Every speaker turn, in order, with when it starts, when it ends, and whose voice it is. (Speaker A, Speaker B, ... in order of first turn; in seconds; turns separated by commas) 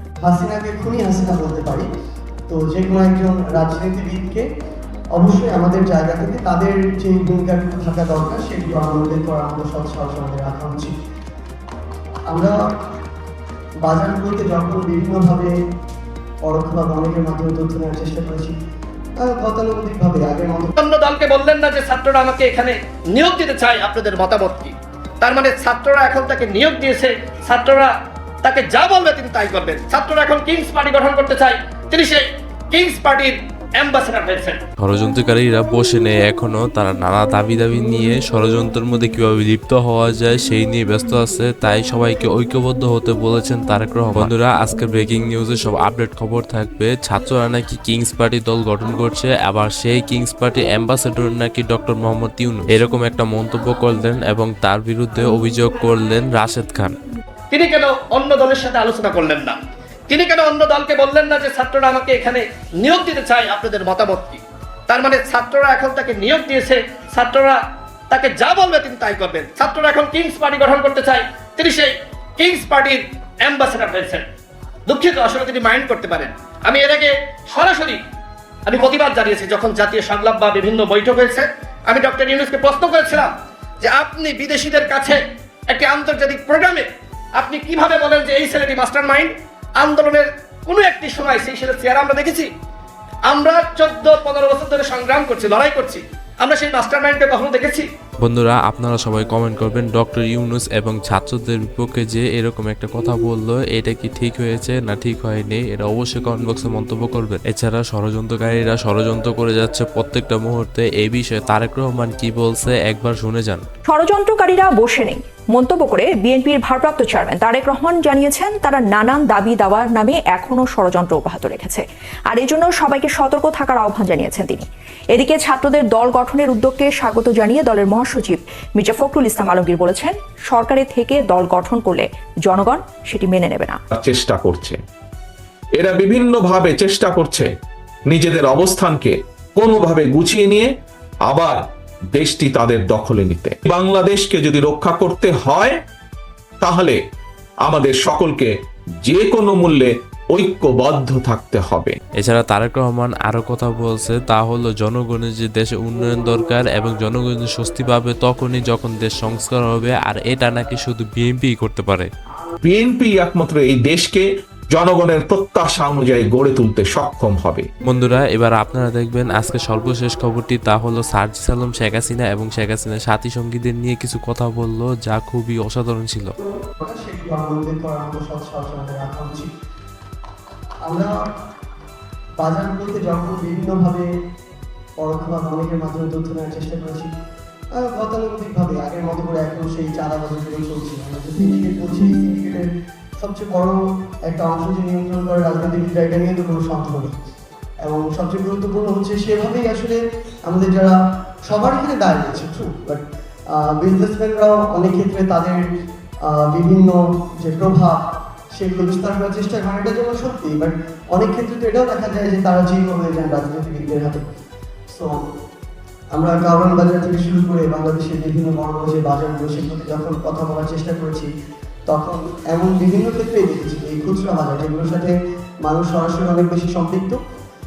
Speaker A: 0.2-1.9, Speaker A: 2.5-4.5, Speaker A: 5.1-10.9, Speaker A: 12.3-12.6, Speaker A: 13.8-15.5, Speaker A: 16.4-18.5, Speaker A: 19.2-20.7, Speaker B: 20.8-27.9, Speaker B: 28.4-34.6, Speaker C: 34.8-57.0, Speaker B: 57.5-59.6, Speaker B: 60.1-74.2, Speaker B: 74.9-78.0, Speaker B: 78.7-92.5, Speaker B: 93.3-97.8, Speaker C: 98.2-113.6, Speaker D: 113.8-133.8, Speaker E: 133.9-134.8, Speaker E: 135.8-137.5, Speaker E: 138.1-140.7, Speaker E: 141.2-141.6, Speaker E: 142.1-145.8, Speaker E: 146.6-147.0, Speaker E: 147.6-152.0, Speaker C: 152.2-162.1, Speaker E: 162.6-167.7, Speaker C: 167.8-176.3, Speaker A: 176.8-179.5, Speaker A: 180.8-181.1, Speaker A: 182.4-184.1, Speaker A: 185.0-187.1, Speaker A: 187.7-197.1, Speaker A: 197.8-205.6, Speaker A: 206.2-208.0, Speaker A: 208.6-214.2, Speaker A: 214.9-215.2, Speaker A: 216.1-221.3, Speaker A: 221.9-227.2